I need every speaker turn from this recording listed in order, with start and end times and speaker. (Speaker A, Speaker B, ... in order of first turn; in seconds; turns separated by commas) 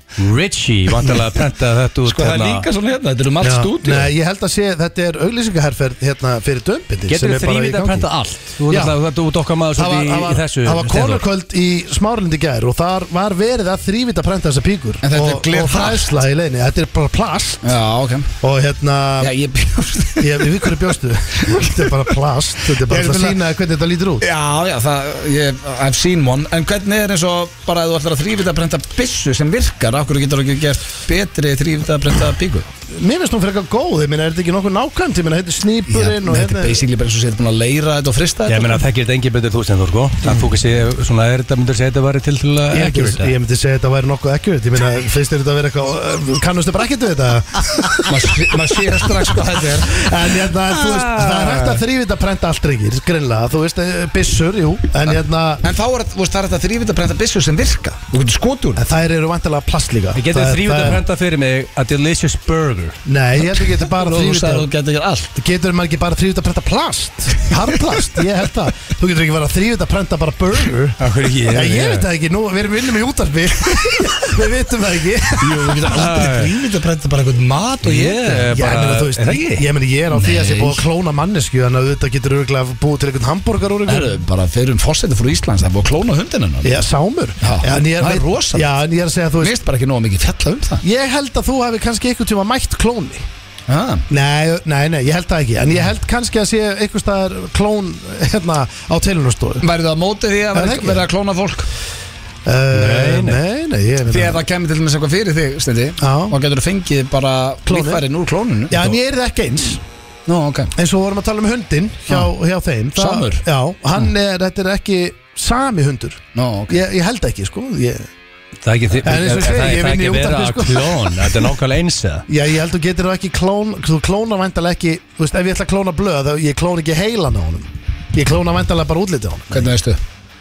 Speaker A: 0.2-2.6, Speaker B: 2.0-4.1, Speaker C: 3.4-8.1, Speaker A: 7.1-11.2, Speaker C: 8.7-9.0, Speaker C: 9.7-17.7, Speaker B: 15.0-16.2, Speaker B: 17.6-18.3, Speaker C: 18.4-19.3, Speaker B: 19.2-22.0, Speaker C: 20.2-24.2, Speaker B: 22.8-23.4, Speaker B: 24.2-32.7, Speaker C: 32.9-36.8, Speaker B: 35.9-38.8, Speaker A: 38.5-43.3, Speaker C: 42.7-48.5, Speaker B: 48.0-50.1, Speaker C: 49.8-55.6, Speaker B: 50.9-51.6, Speaker B: 55.6-58.8, Speaker C: 58.8-61.0, Speaker A: 60.1-63.0, Speaker C: 63.0-64.7, Speaker B: 63.5-65.3, Speaker C: 65.3-76.1, Speaker A: 71.0-72.1, Speaker B: 75.4-78.5, Speaker A: 75.4-76.5, Speaker A: 77.8-79.7, Speaker C: 78.4-84.2, Speaker B: 80.1-80.8, Speaker B: 83.9-86.8, Speaker C: 86.6-89.6, Speaker B: 87.4-88.7, Speaker B: 89.4-90.8, Speaker C: 90.8-93.2, Speaker B: 93.7-94.0, Speaker C: 94.1-99.7, Speaker B: 99.6-101.7, Speaker C: 100.5-101.0, Speaker C: 102.5-104.4, Speaker A: 102.7-103.4, Speaker B: 104.1-109.0, Speaker C: 106.0-106.4, Speaker C: 107.7-108.0, Speaker C: 108.7-109.8, Speaker B: 110.3-110.7, Speaker C: 110.8-118.1, Speaker B: 113.0-113.4, Speaker B: 116.3-116.8, Speaker A: 118.6-122.2, Speaker C: 119.0-121.3, Speaker C: 122.3-129.7, Speaker B: 129.5-130.0